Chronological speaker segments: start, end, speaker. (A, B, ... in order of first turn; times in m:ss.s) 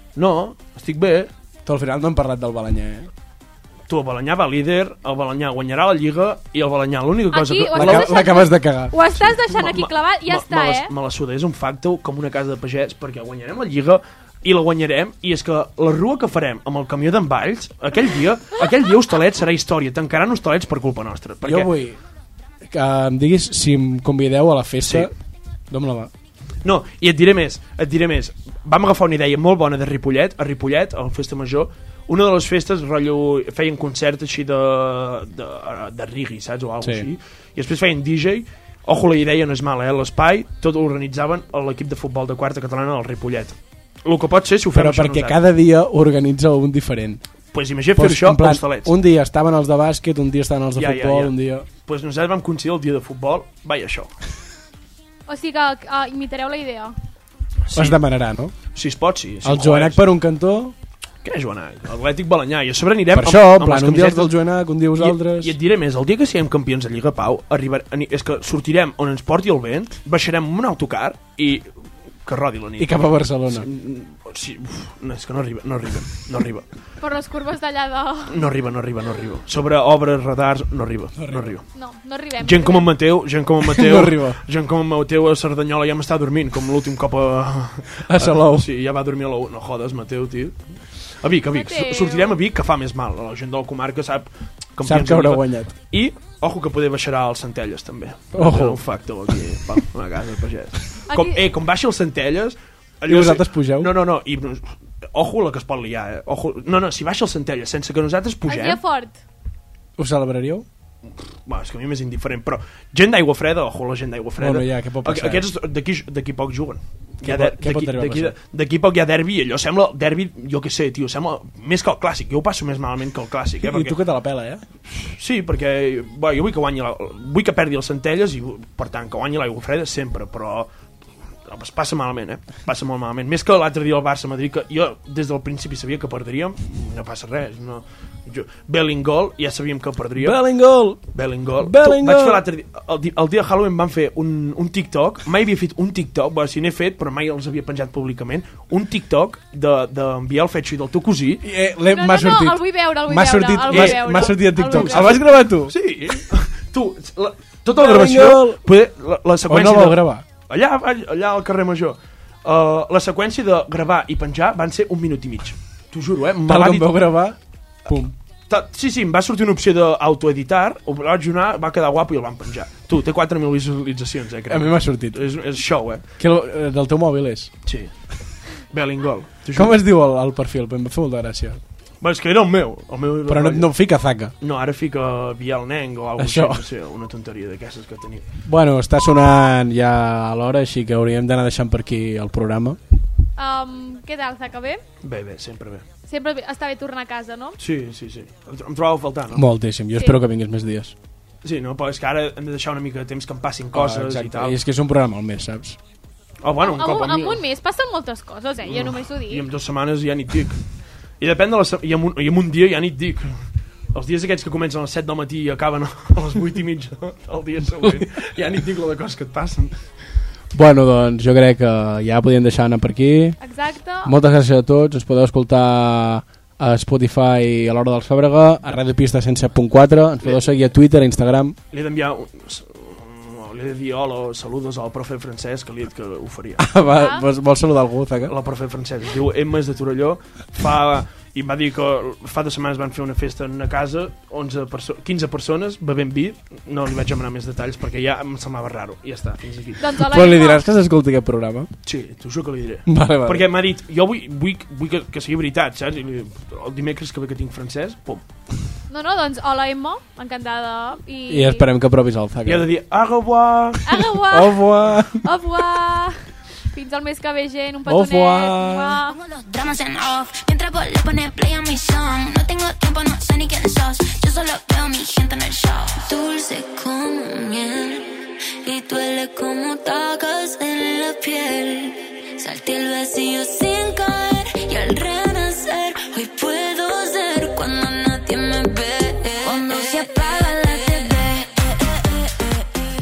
0:00.2-0:01.3 A
0:01.6-0:03.1 B
0:03.9-0:08.4 A
0:07.3-0:10.9 C
0:07.7-0:09.3 B
0:09.3-0:21.7 A
0:21.4-0:22.0 B
0:22.6-0:25.1 B
0:24.8-0:25.1 A
0:25.7-0:26.1 B
0:26.6-0:45.4 A
0:36.8-0:37.1 B
0:44.7-0:47.2 B
0:47.5-0:48.9 A
0:48.0-0:51.7 B
0:50.8-0:54.1 A
0:55.3-0:56.9 C
0:57.7-0:58.0 A
0:57.7-0:58.5 B
0:58.7-1:00.0 A
0:59.4-1:00.7 B
1:01.2-1:04.4 A
1:03.1-1:05.6 B
1:05.0-1:11.7 A
1:12.2-1:16.6 A
1:12.8-1:13.7 B
1:17.0-1:18.4 C
1:18.3-1:21.6 A
1:21.2-1:21.5 B
1:21.7-1:22.9 C
1:22.4-1:30.6 A
1:23.6-1:24.4 B
1:28.1-1:28.7 B
1:31.2-1:48.8 A
1:31.5-1:32.4 C
1:34.8-1:35.7 B
1:38.3-1:39.4 B
1:41.1-1:41.4 C
1:43.0-1:44.0 B
1:48.4-1:49.2 C
1:50.0-1:50.6 B
1:51.4-2:04.0 A
1:54.4-1:55.5 B
1:57.2-1:58.4 B
2:03.6-2:04.6 B
2:04.9-2:10.7 A
2:11.5-2:20.4 A
2:20.2-2:22.4 B
2:21.1-2:31.4 A
2:31.4-2:35.7 B
2:31.9-2:35.2 C
2:33.7-2:46.9 A
2:37.7-2:38.6 B
2:39.4-2:40.2 B
2:46.4-2:48.1 B
2:48.5-2:56.0 A
2:54.5-2:55.2 B
2:56.2-2:57.5 B
2:57.6-2:57.9 A
2:58.4-2:59.8 A
2:59.5-3:01.6 B
3:02.0-3:03.7 A
3:03.3-3:04.3 B
3:04.4-3:08.2 A
3:06.2-3:06.6 B
3:08.4-3:12.8 B
3:13.4-3:14.8 C
3:15.0-3:15.8 A
3:16.1-3:17.6 C
3:17.6-3:19.4 A
3:19.3-3:20.9 B
3:19.9-3:20.2 C
3:21.4-3:24.6 A
3:23.7-3:25.8 B
3:26.4-3:27.4 A
3:26.6-3:29.4 C
3:28.6-3:30.6 A
3:31.2-3:39.7 A
3:40.5-3:43.4 B
3:43.4-3:44.1 C
3:44.0-3:51.6 B
3:50.2-3:50.5 A
3:51.7-3:56.7 A
3:56.6-3:58.3 B
3:56.9-3:57.2 C
3:58.2-4:10.0 A
4:09.8-4:10.6 C
4:10.0-4:11.7 B
4:11.8-4:18.2 A
4:12.9-4:13.5 B
4:18.9-4:21.7 C
4:21.3-4:22.7 B
4:22.4-4:24.0 A
4:23.8-4:29.2 C
4:24.3-4:25.2 B
4:27.9-4:29.0 B
4:29.1-4:52.8 D